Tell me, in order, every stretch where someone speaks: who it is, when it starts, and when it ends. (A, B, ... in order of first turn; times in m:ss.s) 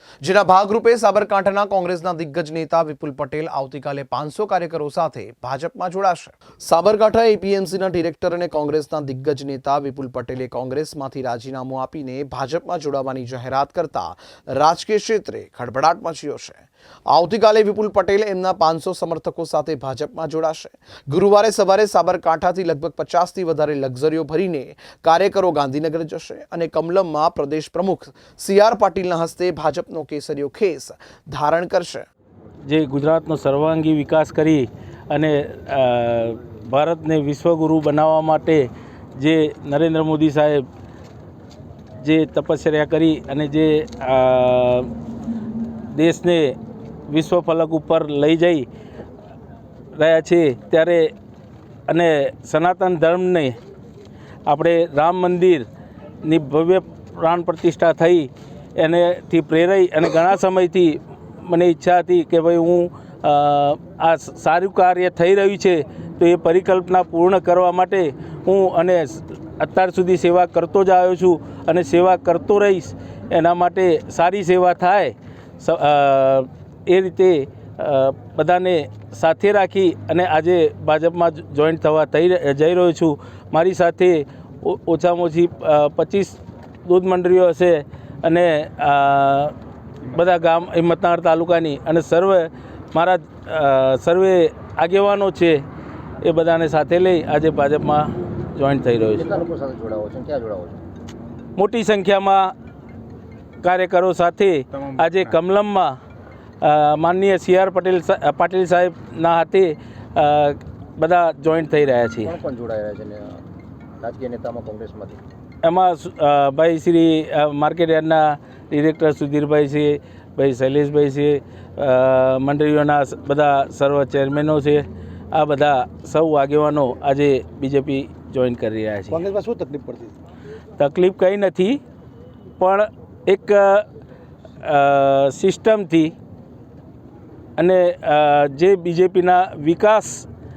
0:00.2-0:32.1 A
0:32.6-0:40.6 B
0:42.0-0:44.9 B
0:45.9-0:46.6 B
0:47.1-0:48.7 B
0:49.9-0:51.1 B
0:51.9-0:53.5 B
0:54.5-0:55.7 B
0:56.2-1:29.5 B
1:30.0-1:35.6 B
1:36.2-1:39.4 B
1:39.2-1:40.8 C
1:41.6-1:42.5 B
1:43.6-1:46.0 B
1:46.6-1:52.4 B
1:52.2-1:53.4 C
1:54.0-1:55.2 C
1:55.6-2:09.3 B
2:10.8-2:11.8 B
2:12.6-2:13.8 B
2:14.6-2:16.1 B
2:17.6-2:20.3 B